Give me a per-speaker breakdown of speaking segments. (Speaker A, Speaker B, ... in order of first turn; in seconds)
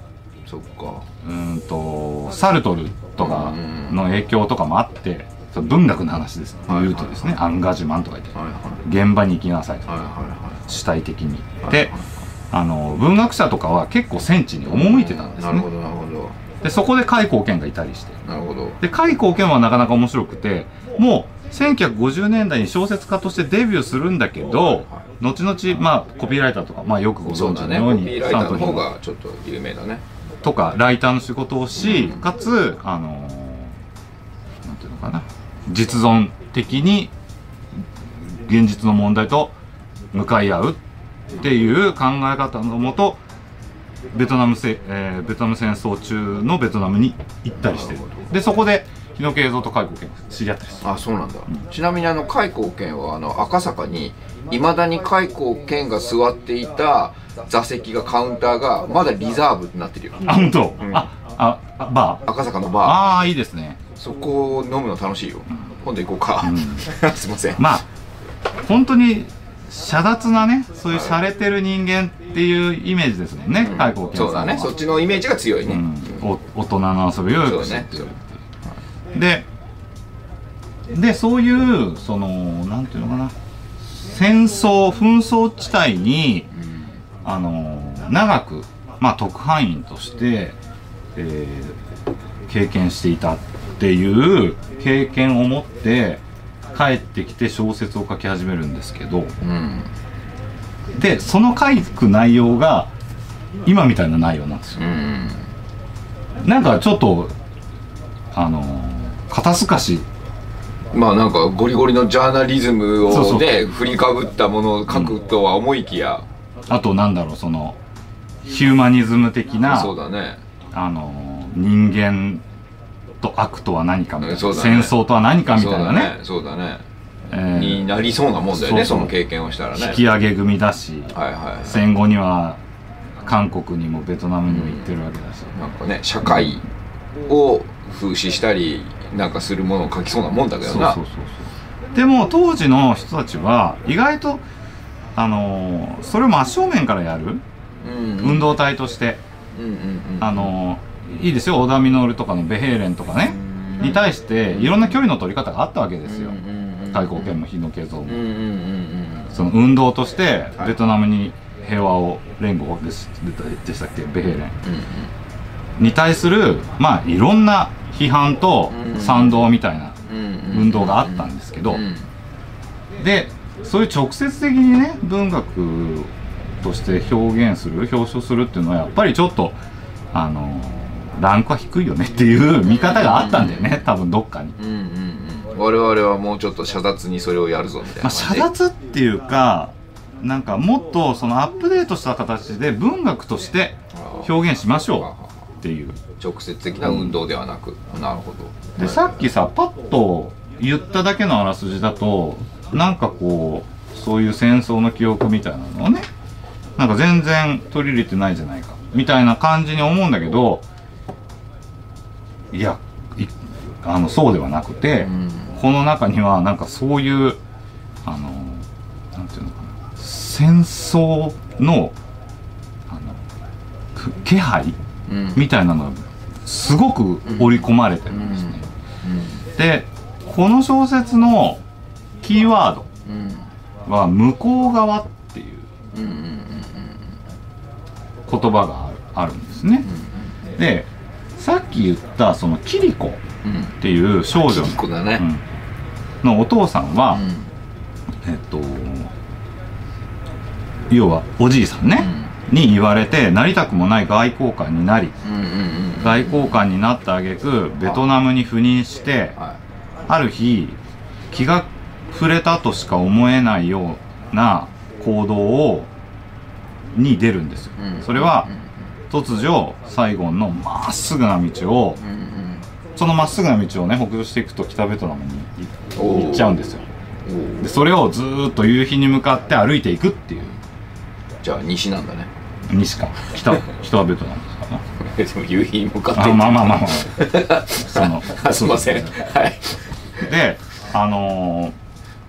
Speaker A: 0.5-1.1, 3.2-4.0, 6.7-7.4, 8.3-8.8, 9.9-10.6, 11.6-12.2, 14.7-16.4, 18.2-18.8, 24.7-25.1, 27.2-30.0, 31.8-32.2, 47.6-48.3, 50.8-61.1, 62.2-63.0, 64.0-67.7, 73.6-76.3, 77.4-78.1, 86.6-86.9, 99.4-99.9, 104.8-105.5, 110.9-116.3, 119.7-120.4, 124.2-126.8, 127.5-130.0, 131.1-131.8, 134.4-134.9, 135.6-136.7, 137.2-141.0, 147.8-148.6, 149.6-150.5, 153.3-155.0, 156.1-157.4, 158.1-159.4, 164.6-165.1, 168.7-169.5, 170.1-172.1, 182.7-183.8, 184.6-188.5, 193.9-194.3, 194.8-195.3, 196.2-199.3, 215.0-215.6, 225.1-225.4, 227.2-229.4, 233.1-233.5, 235.9-237.0, 239.8-240.3, 243.4-243.8, 244.3-245.2, 247.1-247.5, 252.0-252.3, 255.2-256.6, 267.8-268.7, 272.0-272.7, 276.0-276.6, 277.3-277.7, 281.4-282.3, 285.0-290.3
Speaker B: 1.2-9.9, 10.7-11.9, 12.5-15.7, 16.6-18.2, 18.8-28.9, 30.4-33.8, 34.6-37.1, 38.2-39.5, 40.1-40.8, 41.4-43.2, 44.1-50.9, 60.2-62.2, 62.8-63.8, 66.4-66.9, 67.6-67.9, 68.6-74.8, 75.7-78.4, 79.1-79.5, 80.9-86.5, 87.2-90.6, 91.2-91.8, 92.5-99.3, 101.0-102.9, 103.7-104.8, 106.4-107.3, 108.3-110.1, 113.1-113.6, 114.9-115.2, 116.7-117.8, 118.4-120.0, 120.7-122.4, 123.2-126.2, 127.3-127.9, 128.5-129.1, 129.8-132.6, 133.2-135.6, 140.6-144.4, 145.2-147.4, 148.2-149.2, 150.2-156.4, 156.9-158.3, 159.3-164.6, 165.8-170.0, 170.5-171.8, 173.0-179.6, 180.1-184.6, 188.0-195.1, 195.6-196.0, 196.8-197.2, 198.8-206.1, 206.8-210.7, 212.5-217.4, 218.0-222.0, 222.9-223.2, 223.9-224.8, 225.3-228.6, 229.6-231.6, 232.2-232.9, 233.9-235.7, 238.3-239.9, 240.6-243.2, 243.8-245.4, 246.2-247.2, 248.2-249.1, 250.9-255.2, 256.0-259.4, 260.1-260.8, 261.3-265.9, 266.9-268.5, 269.1-272.0, 273.0-276.9, 277.6-280.6, 282.7-284.8, 286.1-289.2, 290.2-291.8